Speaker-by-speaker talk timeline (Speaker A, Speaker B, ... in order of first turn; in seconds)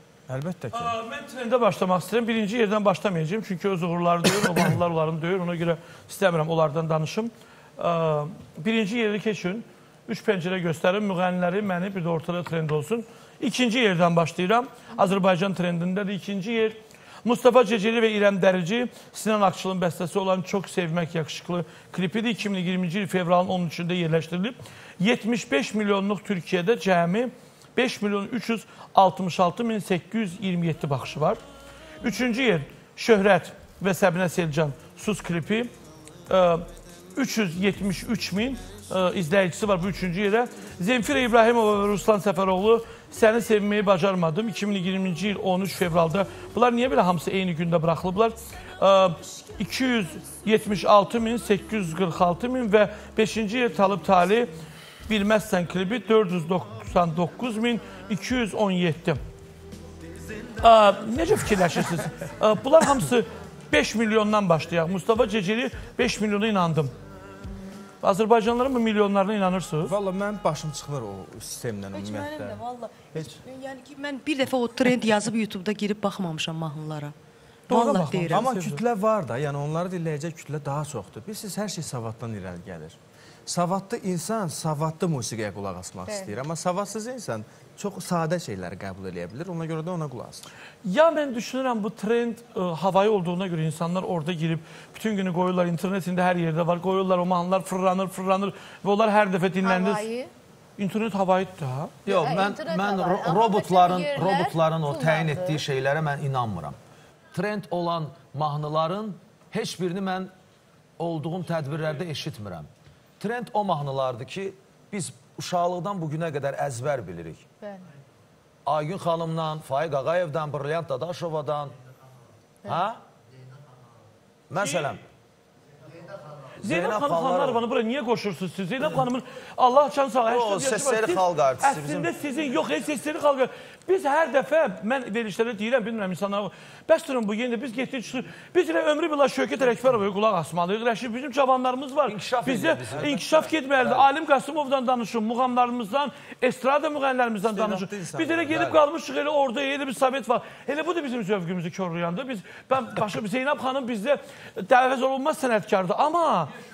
Speaker A: 0.3-0.9, 69.8-72.6, 73.1-73.4, 77.7-90.5, 147.4-148.8
Speaker B: 0.7-31.4, 32.0-35.7, 36.3-54.5, 55.1-59.2, 60.6-66.9, 68.0-69.9, 77.7-78.8, 90.8-100.0, 100.8-101.9, 124.6-124.8, 126.6-156.5
Speaker C: 71.9-77.1, 77.7-78.5
Speaker D: 99.6-100.3, 102.1-105.6, 117.6-117.9
Speaker E: 102.0-106.8, 107.3-110.3, 111.0-112.7, 113.2-117.4, 118.7-121.8, 122.7-123.0, 124.5-125.0, 126.6-127.6, 130.2-132.1, 142.1-143.9